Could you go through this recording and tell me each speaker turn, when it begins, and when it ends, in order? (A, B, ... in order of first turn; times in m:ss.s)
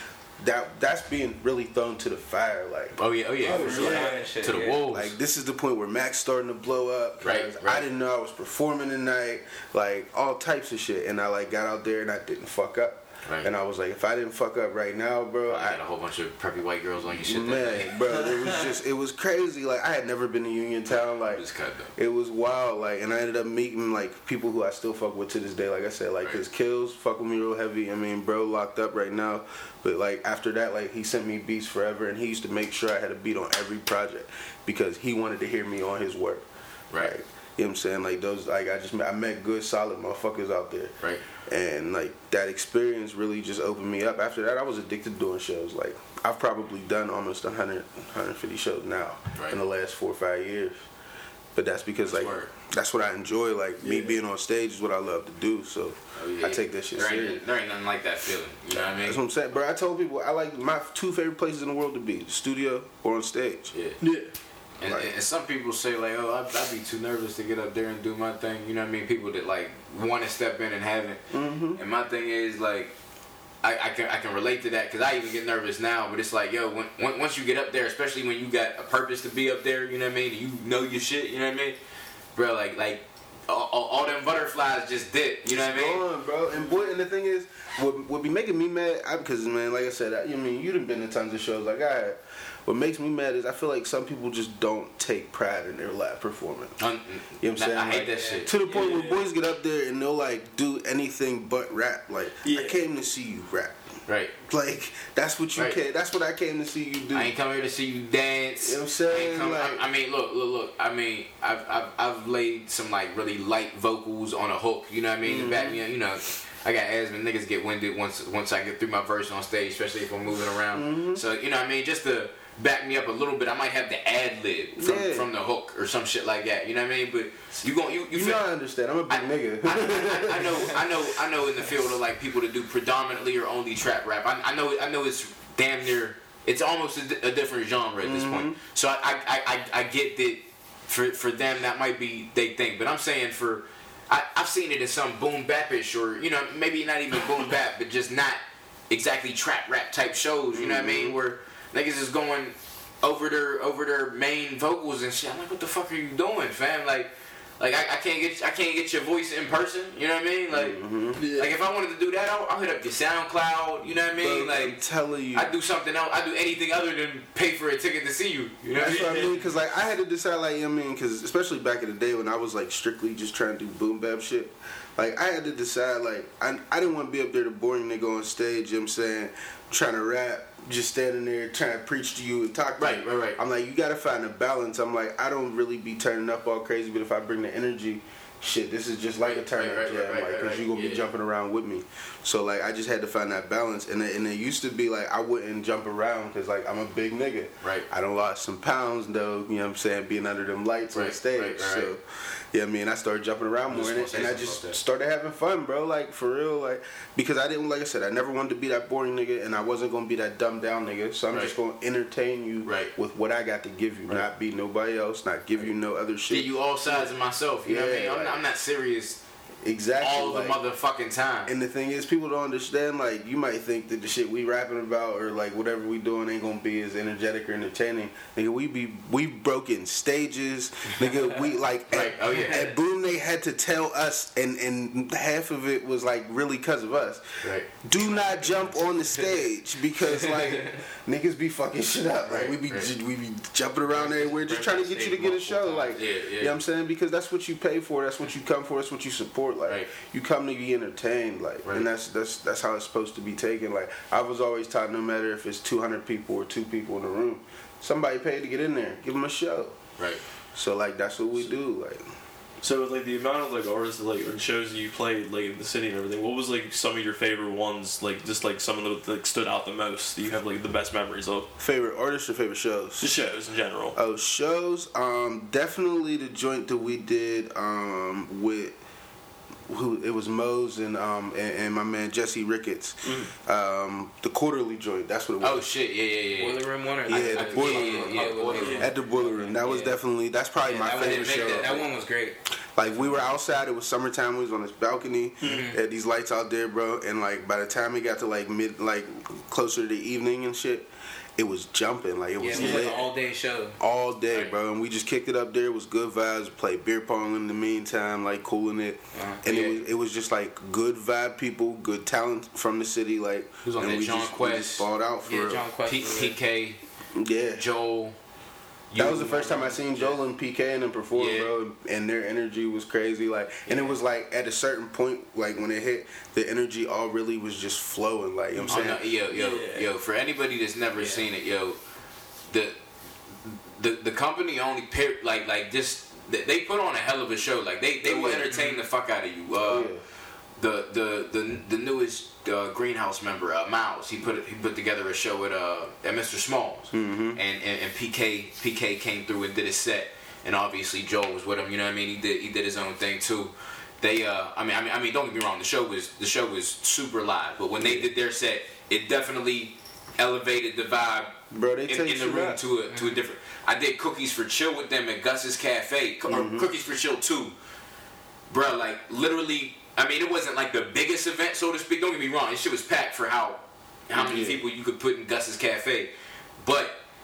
0:00.4-0:04.3 A
0:03.0-0:05.1 B
0:03.4-0:04.3 C
0:03.5-0:04.8 D
0:04.9-0:15.8 A
0:07.2-0:07.8 B
0:13.2-0:13.5 B
0:15.5-0:18.0 B
0:17.1-0:36.4 A
0:21.2-0:21.9 B
0:37.0-0:50.8 A
0:51.5-0:57.4 A
0:52.0-0:52.5 B
0:53.8-0:54.2 C
0:56.2-0:59.2 B
0:58.7-1:03.7 A
1:03.7-1:04.0 B
1:04.0-1:04.3 C
1:04.8-1:11.2 B
1:04.8-1:05.1 A
1:11.3-1:11.8 A
1:11.7-1:12.9 B
1:13.6-1:21.8 B
1:22.4-1:26.0 B
1:25.5-1:36.8 A
1:36.8-1:38.6 B
1:37.4-1:43.8 A
1:38.2-1:38.9 D
1:38.6-1:39.2 C
1:42.4-1:42.8 C
1:44.1-1:44.3 B
1:44.4-1:47.3 A
1:47.1-2:08.5 B
1:48.6-1:49.8 A
1:55.2-1:55.8 A
2:00.7-2:01.2 A
2:04.8-2:05.3 A
2:08.1-2:10.9 A
2:09.1-2:44.8 B
2:18.0-2:18.6 A
2:30.5-2:31.2 A
2:40.5-2:41.3 A
2:41.2-2:41.5 C
2:44.1-2:45.5 A
2:45.3-2:49.3 B
2:48.7-3:37.1 A
2:49.0-2:49.3 C
3:02.8-3:03.4 B
3:09.2-3:11.1 B
3:17.6-3:17.9 B
3:20.9-3:21.9 B
3:23.7-3:24.8 B
3:32.6-3:32.9 B
3:36.3-3:39.2 B
3:37.6-3:38.4 A
3:39.6-3:40.6 A
3:40.0-3:41.5 B
3:41.4-4:19.8 A
3:51.9-3:52.7 B
4:02.2-4:02.9 B
4:04.4-4:05.1 D
4:04.5-4:06.5 B
4:20.5-4:22.1 A
4:22.6-4:31.5 C
4:31.6-4:33.1 A
4:33.0-4:34.0 C
4:33.9-4:38.8 A
4:39.7-4:45.6 A
4:43.0-4:43.3 C
4:45.4-4:48.9 B
4:46.4-4:50.0 D
4:47.0-4:51.9 A
4:48.5-4:48.9 C
4:50.6-4:52.4 D
4:50.9-4:51.7 B
4:52.7-5:03.1 A
4:55.4-4:55.8 B
5:02.4-5:03.8 D
5:02.5-5:02.9 C
5:03.8-5:15.7 A
5:09.1-5:09.8 D
5:13.6-5:14.9 B
5:15.2-5:16.4 D
5:15.8-5:16.8 B
5:17.1-5:17.6 A
5:17.5-5:18.2 B
5:18.9-5:20.2 B
5:18.9-5:29.0 A
5:21.1-5:21.5 B
5:28.6-5:29.9 C
5:28.7-5:31.8 B
5:32.5-5:32.8 B
5:33.4-5:39.9 B
5:38.0-5:38.5 A
5:39.6-5:40.0 A
5:40.6-6:07.5 B
5:46.9-5:47.4 A
5:57.8-5:58.1 A
6:01.5-6:02.6 A
6:02.9-6:03.2 D
6:06.3-6:06.7 A
6:08.5-6:17.0 B
6:14.1-6:14.6 A